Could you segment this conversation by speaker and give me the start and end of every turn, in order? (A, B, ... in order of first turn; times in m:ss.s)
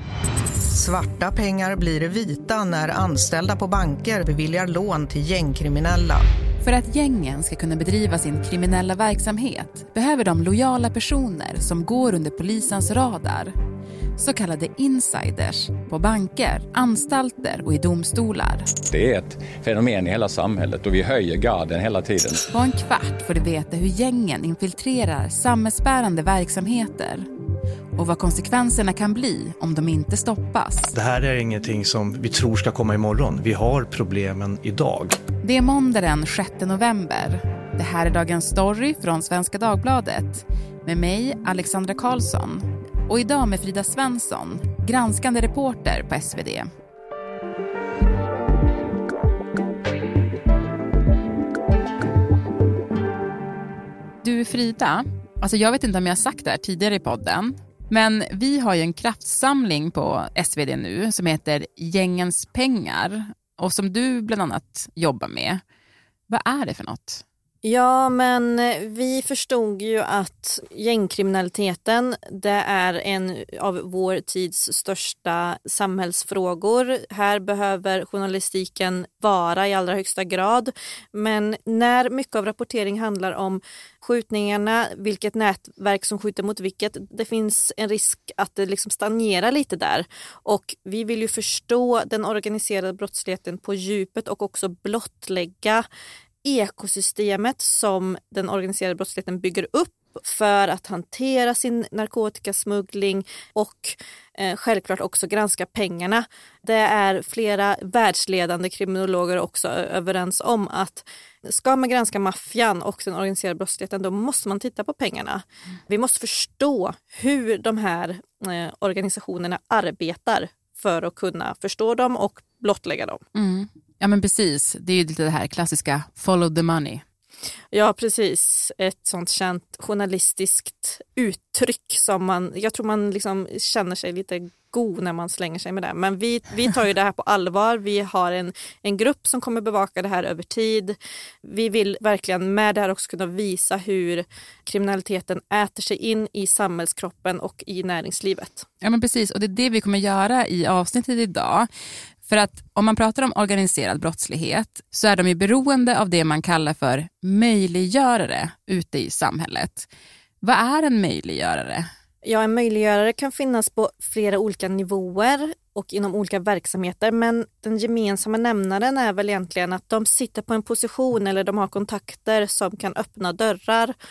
0:00.7-0:06.2 A
0:06.6-0:13.5 B
0:14.2-0:18.7 B
0:18.9-0:22.4 C
0:22.5-0:27.2 B
0:28.0-0:30.9 B
0:30.9-0:35.2 D
0:35.4-0:46.7 B
0:54.2-1:05.6 B
1:06.3-1:07.2 B
1:07.6-1:35.8 E
1:36.4-2:03.2 E
2:03.3-2:07.0 B
2:07.7-2:28.6 E
2:28.8-2:31.7 B
2:32.2-2:39.9 B
2:40.4-2:41.8 B
2:42.2-2:53.9 E